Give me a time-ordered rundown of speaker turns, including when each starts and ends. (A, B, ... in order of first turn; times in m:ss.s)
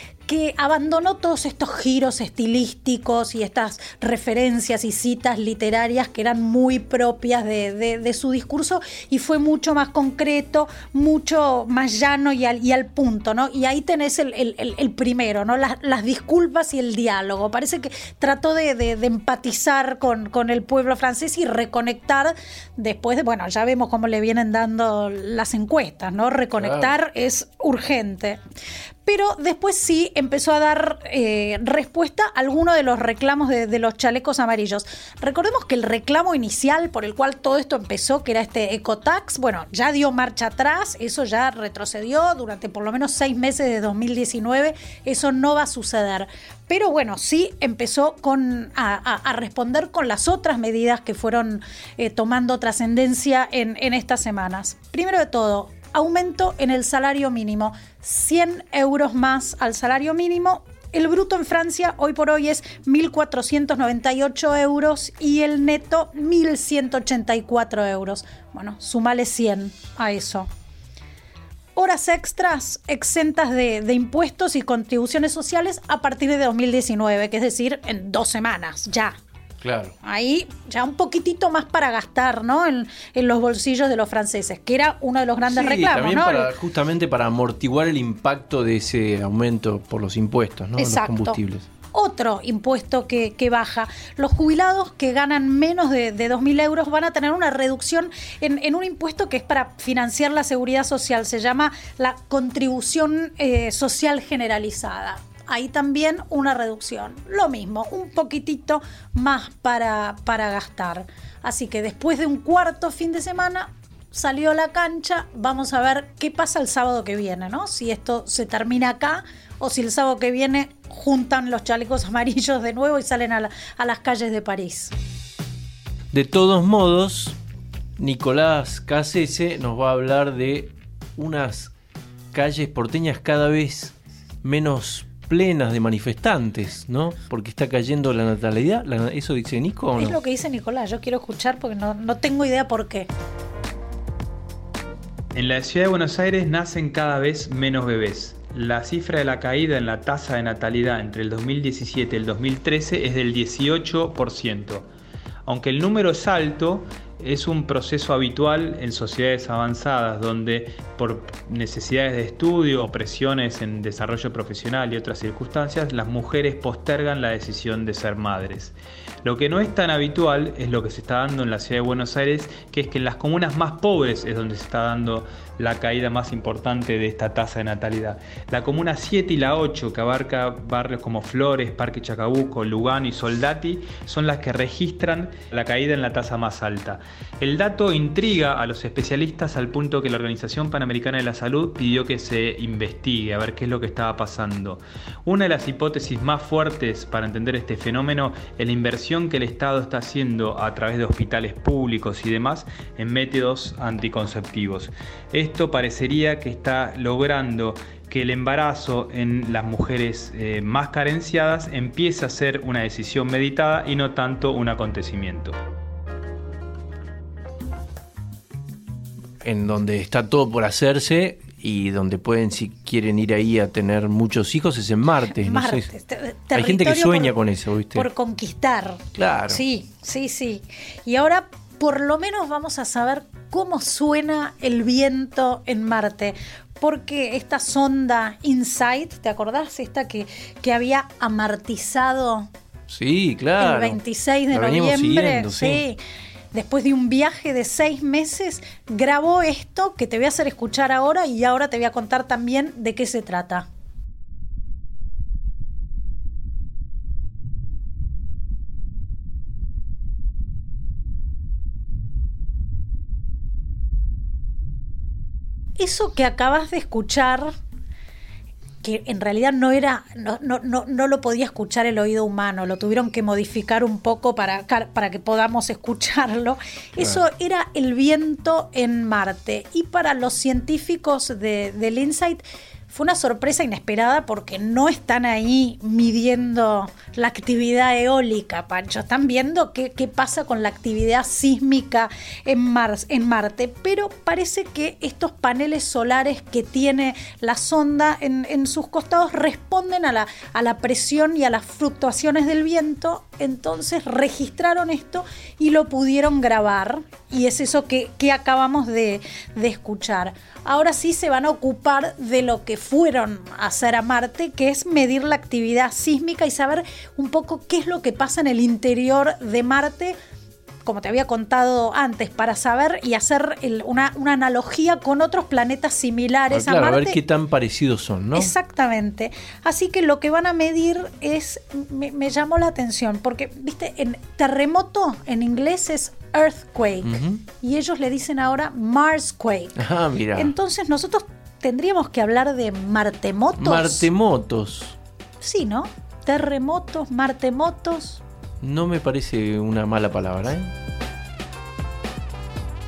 0:00.3-0:28.4 A
0:26.6-0:26.9 B
0:29.0-1:10.5 A
1:11.8-1:19.2 A
1:19.6-1:20.0 B
1:20.0-1:26.5 A
1:25.5-1:31.7 B
1:30.8-1:31.4 A
1:31.9-2:04.9 A
2:06.1-2:07.4 B
2:08.0-2:11.7 B
2:12.3-2:20.2 B
2:20.0-2:23.1 A
2:25.3-2:34.9 C
2:35.5-3:35.6 C
3:39.4-3:45.9 B
3:45.3-3:47.4 A
3:46.5-3:48.1 B
3:47.9-4:02.5 A
3:49.1-3:49.6 B
4:02.9-4:04.0 B
4:03.6-4:06.0 A
4:04.5-4:05.8 B
4:06.5-4:13.7 A
4:25.8-4:27.5 A
4:28.8-5:20.2 A
5:20.8-5:27.2 A
5:26.5-5:28.5 B
5:28.3-5:39.8 A
5:37.0-5:37.4 B
5:39.8-5:40.6 B
5:40.3-5:44.1 A
5:43.6-5:45.0 B
5:45.4-5:48.2 A
5:48.6-5:50.7 B